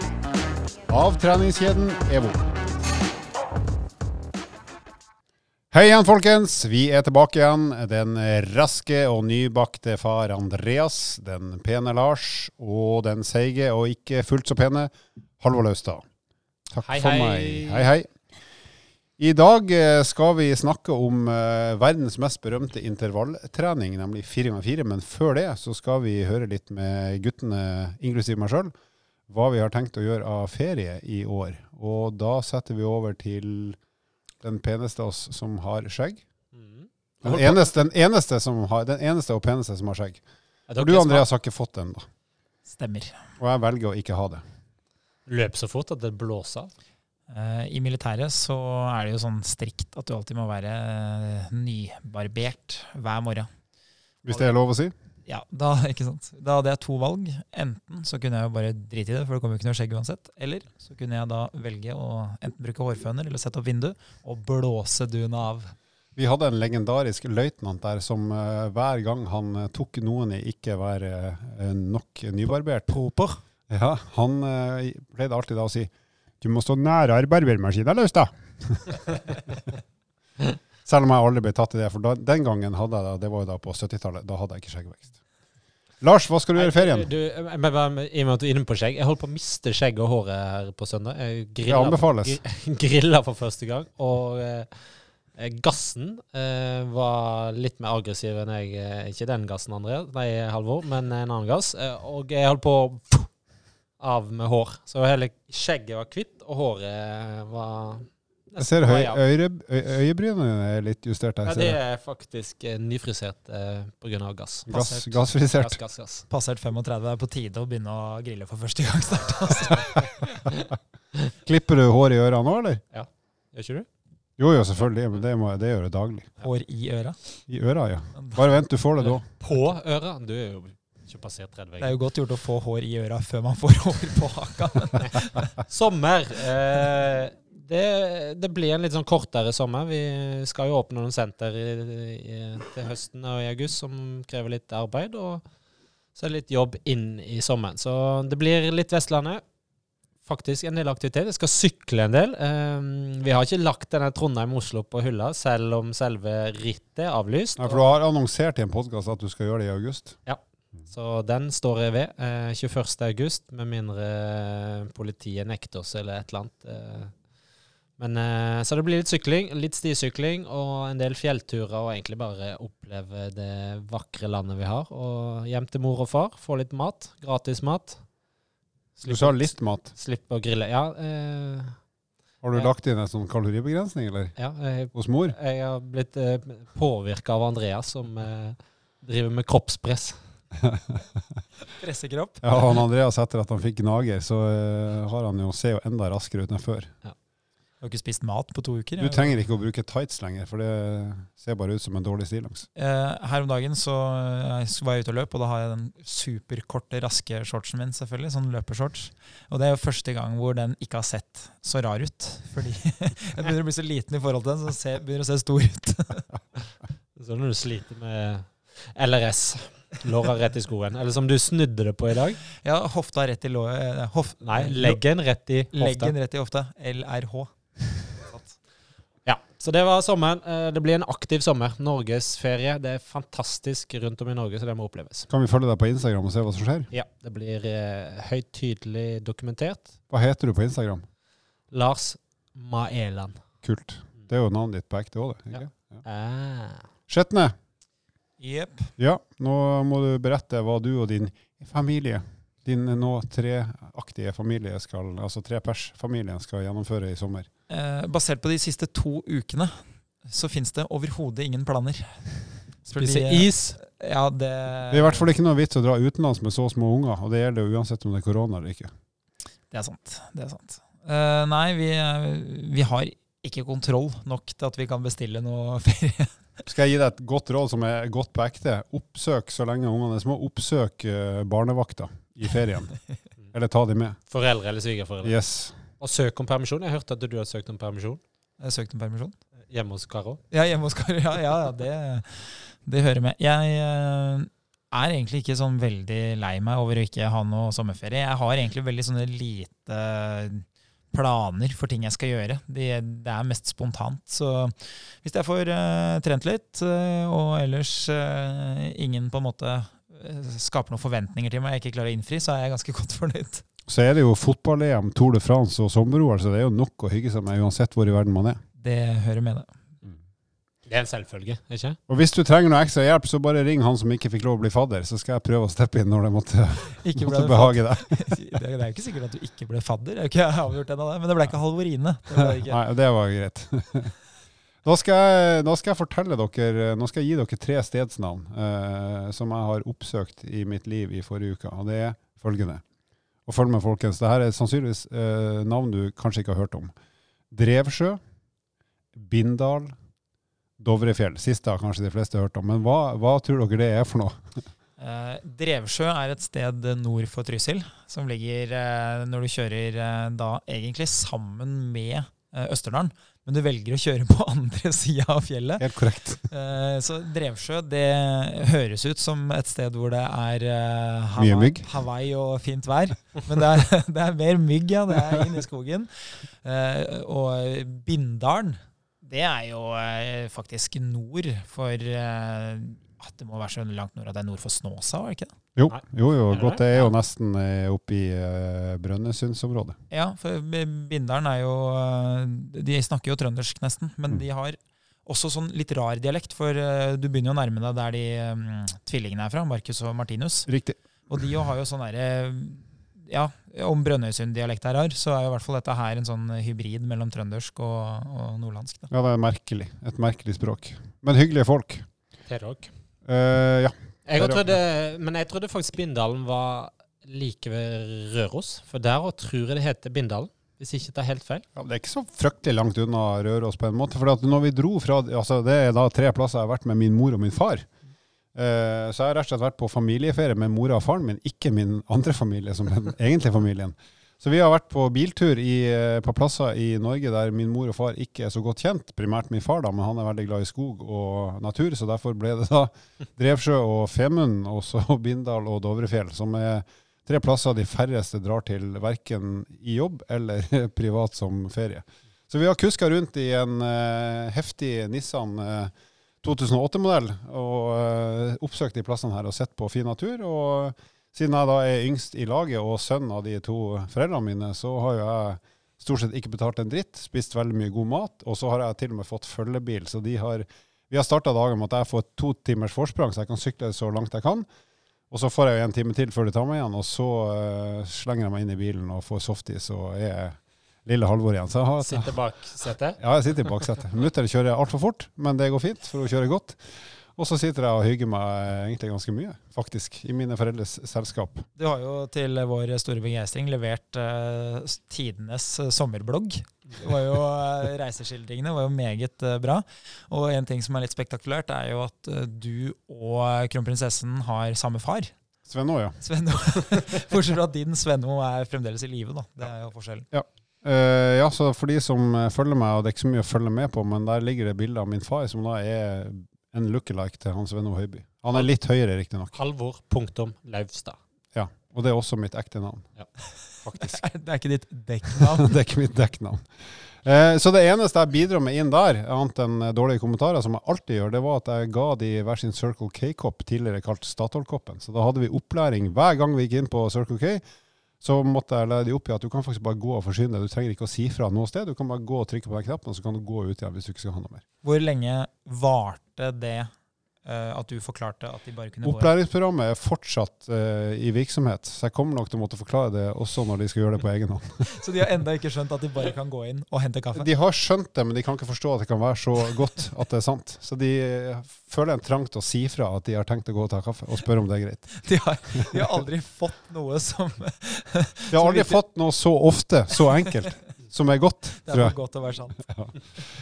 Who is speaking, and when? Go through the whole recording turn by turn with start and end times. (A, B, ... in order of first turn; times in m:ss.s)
0:00.9-0:02.7 A
0:05.7-0:16.0 A
0:16.7-0:18.1 A
0:16.8-0:17.9 B
0:19.2-0:28.7 A
0:29.3-0:33.8 A
0:34.4-0:36.2 A
0:36.5-0:37.7 B
0:37.2-0:40.2 A
0:40.7-0:41.2 B
0:40.8-0:42.0 A
0:42.7-0:43.2 C
0:43.4-0:44.4 A
0:45.3-0:46.7 B
0:47.3-0:53.5 C
0:54.2-0:54.9 A
0:55.2-1:05.7 C
1:06.2-1:13.0 A
1:12.9-1:13.4 B
1:13.7-1:19.6 A
1:20.8-1:25.1 A
1:26.0-1:27.1 A
1:26.5-1:43.3 B
1:31.6-1:32.4 A
1:44.0-1:49.2 B
1:48.6-1:51.8 A
1:51.4-1:54.8 B
1:54.7-1:55.8 A
1:54.7-1:55.1 C
1:55.5-1:56.2 B
1:56.3-2:00.4 C
2:01.4-2:02.8 A
2:02.9-2:03.9 B
2:04.4-2:06.3 A
2:06.4-2:07.2 C
2:07.5-2:09.2 A
2:09.0-2:12.0 B
2:11.8-2:15.6 C
2:15.6-2:25.4 B
2:26.2-2:29.4 B
2:30.2-2:37.9 B
2:37.6-2:40.2 A
2:40.2-2:47.1 B
2:48.0-2:58.0 B
2:59.0-3:01.8 B
2:59.1-2:59.9 A
3:02.4-3:04.4 A
3:04.4-3:10.2 B
3:04.9-3:05.3 A
3:10.6-3:11.0 A
3:11.8-3:12.6 C
3:12.4-3:16.9 A
3:17.8-3:19.4 C
3:19.0-3:22.7 A
3:22.8-3:36.3 C
3:37.2-3:42.4 B
3:42.5-3:45.0 C
3:44.4-3:46.1 B
3:45.7-3:48.6 C
3:49.2-3:55.3 B
3:55.3-3:56.9 A
3:56.9-4:00.0 B
4:00.1-4:01.0 A
4:01.7-4:03.4 B
4:03.6-4:06.0 A
4:05.5-4:06.9 B
4:07.1-4:07.5 A
4:08.4-4:08.9 C
4:09.0-4:17.5 A
4:17.7-4:25.3 C
4:22.9-4:23.8 B
4:24.9-4:28.9 A
4:29.7-4:36.4 C
4:36.6-4:43.0 A
4:43.5-4:44.2 A
4:44.3-4:45.3 B
4:45.2-4:45.8 A
4:46.0-4:48.2 B
4:48.6-4:49.4 C
4:49.7-4:50.4 B
4:50.5-5:13.6 C
5:13.9-5:18.6 A
5:18.8-5:19.7 C
5:20.9-5:22.0 B
5:22.1-5:28.4 A
5:26.9-5:32.8 C
5:32.3-5:34.1 A
5:34.8-5:42.8 A
5:43.4-5:46.9 A
5:47.5-5:48.2 A
5:49.2-5:50.0 A
5:50.8-5:54.4 A
5:55.0-6:05.9 C
6:05.8-6:06.5 A
6:06.5-6:25.5 C
6:11.4-6:11.9 A
6:25.8-6:30.0 A
6:26.5-6:27.0 B
6:30.1-6:40.7 C
6:40.7-6:41.0 A
6:41.3-6:49.1 C
6:49.1-6:52.0 A
6:52.5-6:52.9 B
6:53.2-6:54.8 A
6:54.2-7:01.6 B
7:01.8-7:07.9 A
7:08.5-7:54.7 A
7:55.3-8:02.4 A
8:02.0-8:03.2 B
8:03.2-8:06.8 A
8:07.4-8:11.7 A
8:11.8-8:25.3 C
8:25.6-8:26.2 A
8:26.2-8:30.3 C
8:30.3-8:39.6 A
8:39.5-8:41.2 B
8:41.5-8:43.1 A
8:43.8-8:44.2 A
8:43.9-8:45.7 C
8:45.3-8:46.6 A
8:47.2-8:57.6 A
8:58.2-9:04.6 A
9:04.8-9:06.9 C
9:07.4-9:09.3 C
9:09.0-9:14.9 A
9:14.9-9:17.5 C
9:17.3-9:25.2 A
9:25.2-9:29.0 C
9:25.7-9:26.1 A
9:28.5-9:32.2 A
9:30.3-9:30.7 C
9:31.8-9:32.8 C